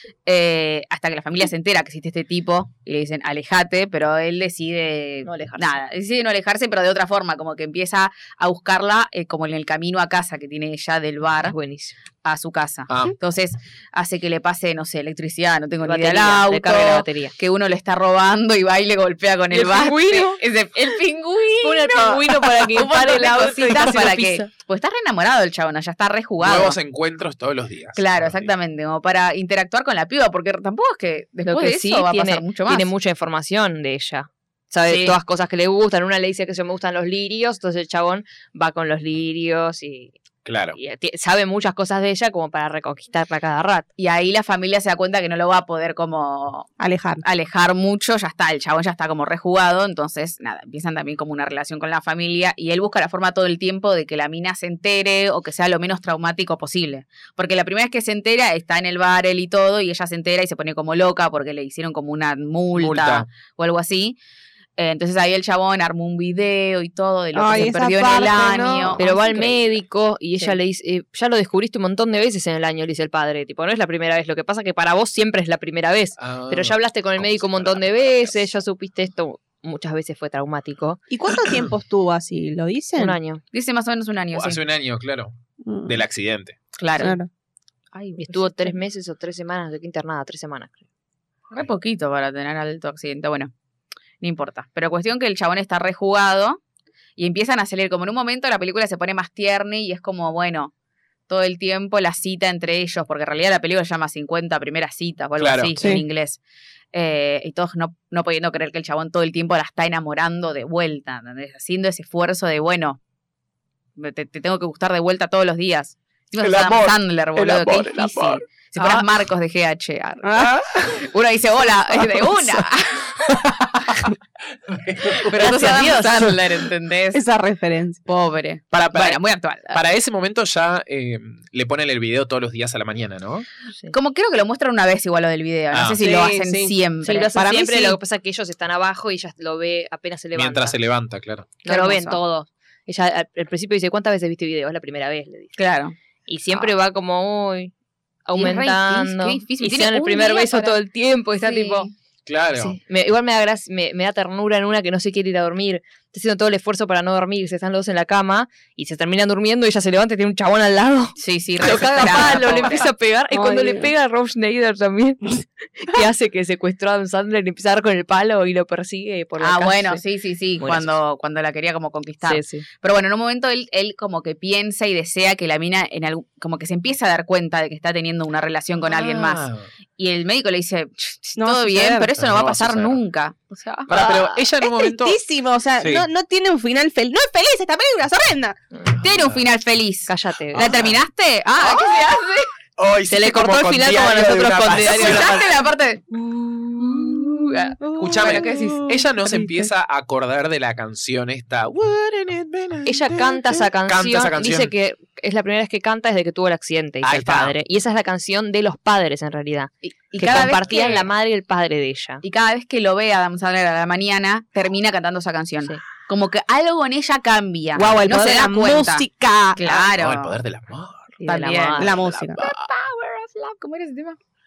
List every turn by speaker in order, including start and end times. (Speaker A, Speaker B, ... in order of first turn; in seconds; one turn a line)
Speaker A: 0.3-11.6
Speaker B: 5.2-5.8
Speaker B: 11.4-12.0
Speaker A: 12.2-26.8
Speaker C: 12.9-13.2
Speaker B: 15.8-17.3
Speaker B: 19.5-20.4
Speaker B: 21.6-24.5
Speaker C: 26.4-28.5
Speaker A: 28.0-32.9
Speaker B: 31.5-40.1
Speaker A: 34.9-35.2
Speaker C: 40.5-40.8
Speaker B: 40.8-43.9
Speaker A: 44.0-46.7
Speaker D: 46.8-47.2
Speaker A: 47.2-64.2
Speaker C: 62.7-63.3
Speaker A: 64.8-69.5
Speaker D: 67.3-69.5
Speaker B: 69.0-81.0
Speaker C: 76.2-78.4
Speaker D: 81.1-83.2
Speaker B: 83.0-83.4
Speaker A: 83.5-84.6
Speaker C: 84.3-86.6
Speaker D: 85.6-85.9
Speaker A: 86.8-87.2
Speaker D: 87.0-87.3
Speaker A: 87.9-88.8
Speaker B: 88.2-90.8
Speaker A: 91.5-93.5
Speaker A: 94.2-96.6
Speaker A: 97.2-100.7
Speaker A: 101.3-106.4
Speaker C: 105.4-105.9
Speaker D: 105.8-106.0
Speaker A: 106.9-113.0
Speaker A: 114.0-123.3
Speaker C: 116.4-118.4
Speaker D: 118.8-119.0
Speaker D: 120.2-121.0
Speaker C: 120.4-120.8
Speaker D: 121.9-122.6
Speaker C: 123.3-124.1
Speaker C: 124.7-125.8
Speaker A: 125.1-127.2
Speaker D: 125.4-126.4
Speaker D: 127.1-128.0
Speaker A: 128.1-129.8
Speaker C: 128.7-133.5
Speaker A: 133.9-137.5
Speaker C: 135.7-136.1
Speaker D: 136.0-136.8
Speaker B: 137.0-140.8
Speaker D: 137.4-138.0
Speaker C: 140.3-141.5
Speaker B: 141.7-145.6
Speaker A: 141.7-142.2
Speaker A: 145.6-146.0
Speaker B: 146.3-147.7
Speaker B: 148.3-151.9
Speaker A: 148.3-150.8
Speaker A: 151.4-151.9
Speaker C: 152.3-152.8
Speaker B: 152.6-170.0
Speaker A: 161.2-162.9
Speaker D: 161.9-162.7
Speaker D: 163.3-163.9
Speaker A: 169.4-179.5
Speaker B: 170.6-170.9
Speaker B: 172.2-172.7
Speaker C: 178.9-179.7
Speaker A: 180.0-184.4
Speaker D: 181.4-182.1
Speaker C: 182.2-183.0
Speaker C: 183.9-185.2
Speaker D: 184.0-188.6
Speaker C: 185.8-186.1
Speaker B: 188.7-189.0
Speaker A: 189.0-192.5
Speaker C: 189.1-189.4
Speaker B: 190.1-190.8
Speaker C: 190.5-191.0
Speaker C: 192.8-195.4
Speaker B: 193.1-195.6
Speaker A: 194.8-199.0
Speaker D: 197.8-199.7
Speaker C: 198.0-204.7
Speaker B: 202.9-212.2
Speaker C: 207.0-207.6
Speaker A: 209.8-211.1
Speaker A: 212.2-219.1
Speaker D: 217.8-219.9
Speaker A: 219.6-220.4
Speaker C: 219.9-221.2
Speaker B: 221.2-222.0
Speaker A: 221.2-224.2
Speaker D: 221.8-222.4
Speaker C: 222.1-222.7